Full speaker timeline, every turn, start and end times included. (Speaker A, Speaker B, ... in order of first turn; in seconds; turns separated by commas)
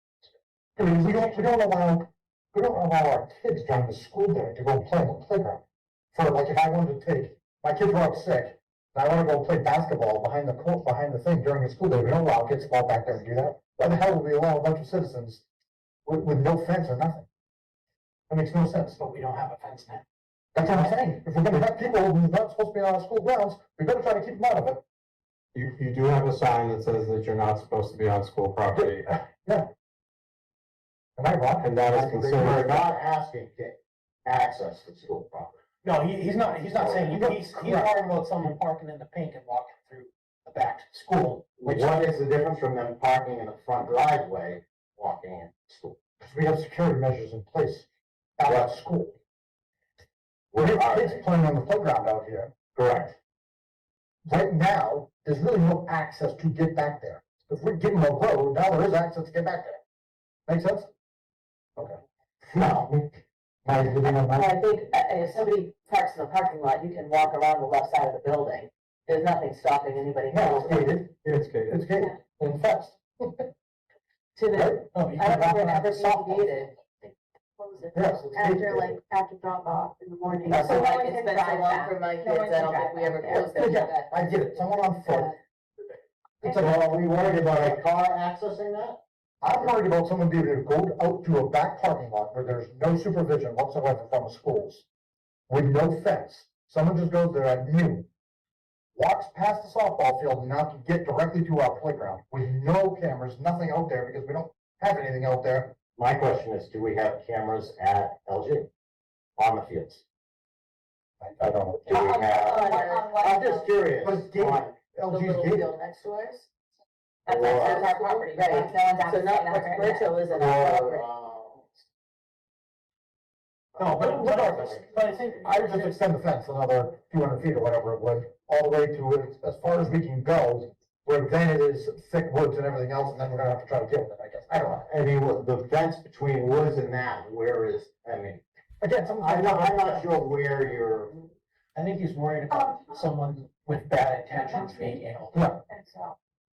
Speaker A: 0.8-15.4, Speaker A: 16.1-17.2, Speaker A: 18.3-19.0, Speaker B: 18.9-20.0, Speaker A: 20.5-24.8, Speaker B: 20.6-21.0, Speaker C: 25.5-29.2, Speaker A: 29.4-29.7, Speaker A: 31.2-32.4, Speaker C: 31.6-32.8, Speaker D: 32.2-35.6, Speaker B: 35.8-42.0, Speaker D: 36.8-37.1, Speaker A: 37.1-37.9, Speaker D: 41.6-46.0, Speaker A: 46.2-47.9, Speaker A: 48.4-49.2, Speaker D: 48.5-48.7, Speaker D: 50.5-51.2, Speaker A: 50.6-52.5, Speaker D: 52.7-53.1, Speaker A: 54.2-59.8, Speaker A: 60.5-60.9, Speaker D: 62.5-63.1, Speaker A: 63.6-64.5, Speaker E: 64.0-71.0, Speaker A: 70.3-73.5, Speaker C: 71.1-71.8, Speaker E: 74.3-77.1, Speaker A: 74.5-74.8, Speaker B: 74.9-76.5, Speaker F: 77.6-83.8, Speaker A: 77.9-79.0, Speaker E: 80.5-84.4, Speaker A: 83.5-85.3, Speaker E: 85.0-85.3, Speaker A: 86.4-87.8, Speaker D: 86.5-89.0, Speaker A: 89.4-94.8, Speaker A: 95.5-98.1, Speaker A: 99.0-105.7, Speaker D: 106.0-108.7, Speaker D: 109.4-110.0, Speaker A: 111.2-112.0, Speaker F: 111.8-113.7, Speaker D: 111.8-114.7, Speaker E: 112.2-113.5, Speaker A: 114.0-115.7, Speaker E: 115.1-116.5, Speaker D: 117.3-117.9, Speaker F: 117.3-120.1, Speaker E: 117.4-121.0, Speaker D: 120.3-121.7, Speaker B: 123.8-126.0, Speaker D: 123.8-125.5, Speaker A: 123.8-134.9, Speaker D: 134.7-138.4, Speaker A: 138.8-140.1, Speaker D: 139.2-141.2, Speaker B: 141.7-145.4, Speaker F: 142.5-143.0, Speaker F: 144.4-145.0, Speaker A: 145.3-145.6, Speaker F: 145.7-146.2